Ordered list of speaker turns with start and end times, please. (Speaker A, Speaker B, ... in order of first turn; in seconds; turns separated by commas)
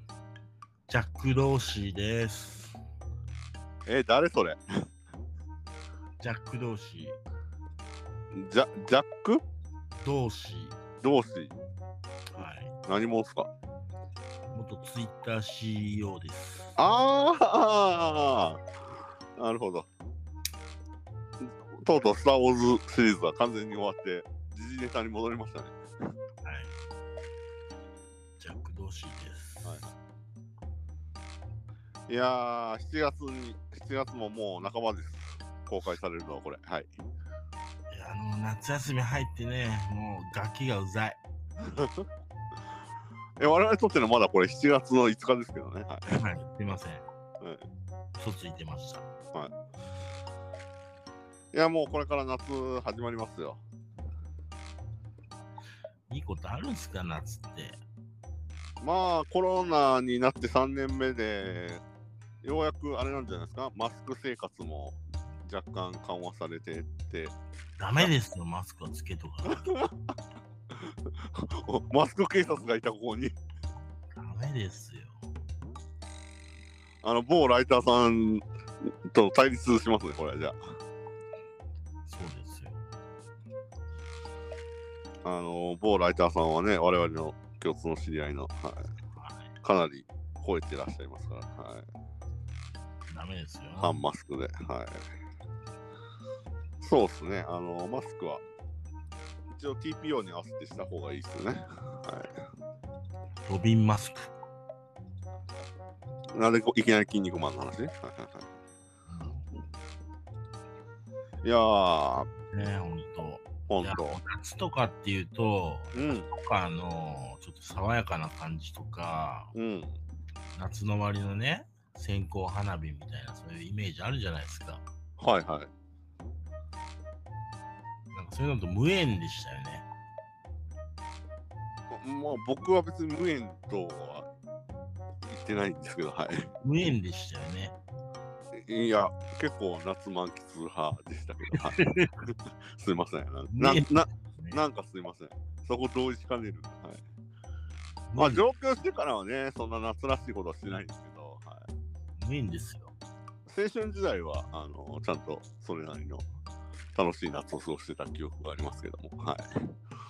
Speaker A: 0.9-2.8, Speaker B: 3.9-4.6, Speaker A: 6.2-7.2, Speaker B: 8.3-9.4, Speaker A: 10.0-10.8, Speaker B: 11.0-11.5, Speaker A: 12.4-12.7, Speaker B: 12.9-13.5, Speaker A: 14.5-16.8, Speaker B: 16.8-18.6, Speaker B: 19.4-19.9, Speaker B: 21.4-25.8, Speaker A: 26.4-26.7, Speaker A: 28.4-29.8, Speaker B: 29.6-29.9, Speaker B: 32.1-36.9, Speaker A: 37.9-41.2, Speaker B: 41.7-42.0, Speaker B: 43.4-46.0, Speaker A: 46.2-47.0, Speaker A: 48.2-49.1, Speaker B: 51.5-53.6, Speaker A: 56.1-57.8, Speaker B: 58.8-61.8, Speaker B: 62.4-67.3, Speaker A: 67.8-69.7, Speaker B: 69.5-69.9, Speaker B: 70.8-73.3, Speaker A: 74.1-75.2, Speaker B: 77.0-78.4, Speaker B: 79.1-80.6, Speaker A: 82.1-82.8, Speaker B: 85.2-88.9, Speaker B: 89.6-91.8, Speaker A: 93.1-94.0, Speaker B: 93.8-95.0, Speaker B: 96.8-98.4, Speaker B: 99.5-102.4, Speaker A: 103.5-104.3, Speaker B: 106.3-108.5, Speaker A: 109.1-109.5, Speaker B: 111.4-112.3, Speaker A: 112.5-119.5, Speaker B: 113.7-114.2, Speaker B: 115.9-116.3, Speaker B: 119.5-120.0, Speaker A: 120.5-124.8, Speaker B: 125.2-125.7, Speaker A: 128.1-129.9, Speaker B: 131.9-134.3, Speaker B: 135.2-136.5, Speaker A: 136.6-137.8, Speaker B: 138.5-141.8, Speaker A: 141.5-142.1, Speaker B: 142.8-147.0, Speaker A: 143.5-144.6, Speaker A: 148.1-148.4, Speaker B: 148.2-151.7, Speaker A: 152.2-152.9, Speaker B: 153.5-156.2, Speaker B: 156.9-159.5